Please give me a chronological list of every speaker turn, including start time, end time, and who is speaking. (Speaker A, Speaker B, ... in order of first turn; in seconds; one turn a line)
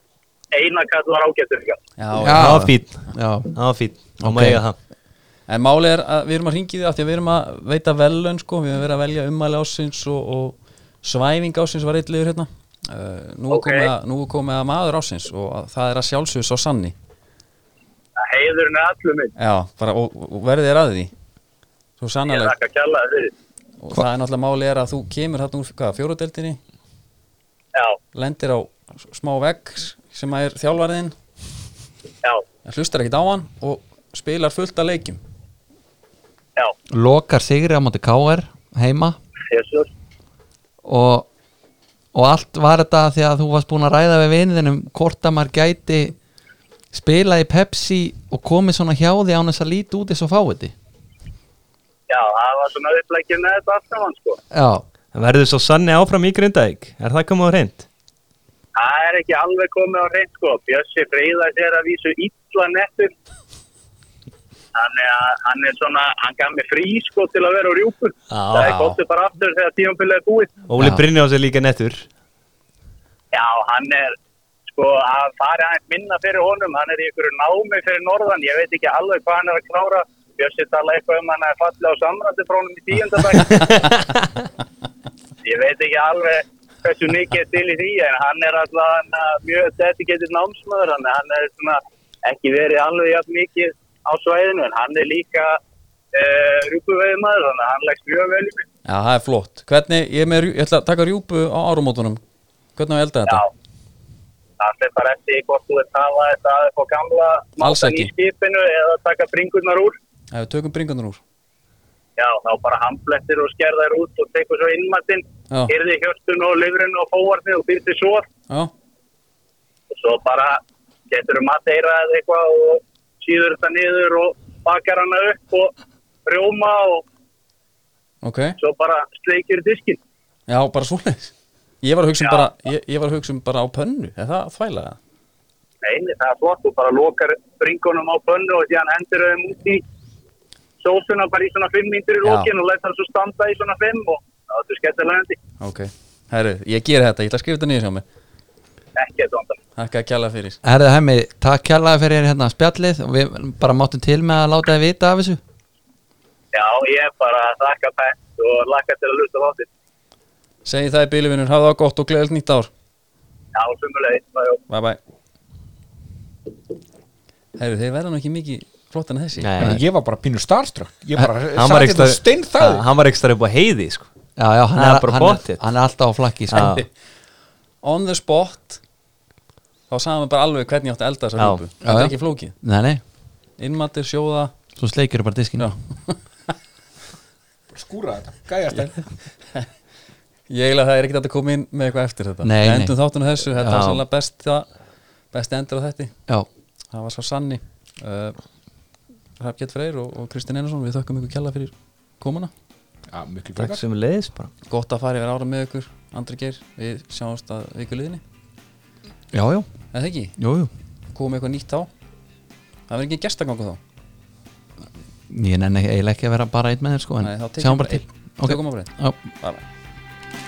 Speaker A: 0.5-1.8
Speaker B: 2.0-2.7
Speaker C: 2.2-3.5
Speaker D: 2.3-4.8
Speaker B: 4.2-4.6
Speaker B: 5.5-16.9
Speaker A: 13.5-13.9
Speaker A: 18.2-19.3
Speaker B: 19.4-21.1
Speaker B: 22.0-22.6
Speaker A: 22.3-23.3
Speaker B: 23.8-26.6
Speaker A: 27.7-28.0
Speaker B: 28.1-31.2
Speaker B: 32.6-35.2
Speaker C: 36.9-39.2
Speaker A: 39.5-39.9
Speaker C: 40.8-41.3
Speaker C: 42.1-46.2
Speaker C: 46.9-50.7
Speaker A: 52.1-54.4
Speaker C: 54.5-54.8
Speaker D: 55.1-57.9
Speaker A: 58.8-63.1
Speaker A: 64.8-70.5
Speaker D: 68.3-69.0
Speaker D: 70.7-72.1
Speaker A: 73.3-74.2
Speaker A: 74.7-83.9
Speaker D: 83.7-84.2
Speaker A: 85.4-95.6
Speaker A: 96.1-98.7
Speaker B: 98.9-102.2
Speaker B: 102.8-103.4
Speaker A: 104.6-110.0
Speaker B: 107.6-108.1
Speaker B: 110.3-111.2
Speaker A: 112.2-118.3
Speaker A: 119.9-125.7
Speaker A: 126.3-127.0
Speaker B: 128.2-128.6
Speaker A: 128.6-130.0
Speaker B: 130.5-135.0
Speaker A: 132.2-132.5
Speaker A: 135.8-139.8
Speaker A: 140.8-145.4
Speaker B: 142.2-142.5
Speaker B: 145.6-148.1
Speaker A: 149.0-149.6
Speaker B: 149.8-150.6
Speaker C: 150.6-155.4
Speaker A: 156.5-159.7
Speaker B: 160.7-162.7
Speaker A: 163.6-164.6
Speaker B: 164.7-165.0
Speaker B: 167.6-169.5
Speaker D: 169.4-169.8
Speaker E: 169.6-172.9
Speaker D: 171.5-174.1
Speaker C: 174.4-176.8
Speaker D: 174.8-175.6
Speaker D: 176.5-176.8
Speaker B: 177.8-178.8
Speaker B: 179.9-182.6
Speaker C: 181.8-183.0
Speaker B: 183.6-184.5
Speaker C: 184.8-185.7
Speaker B: 185.6-186.5
Speaker E: 187.7-189.2
Speaker B: 190.5-194.7
Speaker C: 192.4-192.9
Speaker D: 193.6-194.0
Speaker B: 195.3-196.2
Speaker B: 196.9-198.4
Speaker B: 199.4-202.5
Speaker E: 203.1-203.8
Speaker D: 203.6-204.5
Speaker B: 204.7-208.2
Speaker C: 209.3-209.7
Speaker B: 209.9-210.4
Speaker C: 210.4-210.7
Speaker B: 211.1-211.9
Speaker B: 212.9-213.8
Speaker C: 215.3-219.3
Speaker B: 217.2-219.6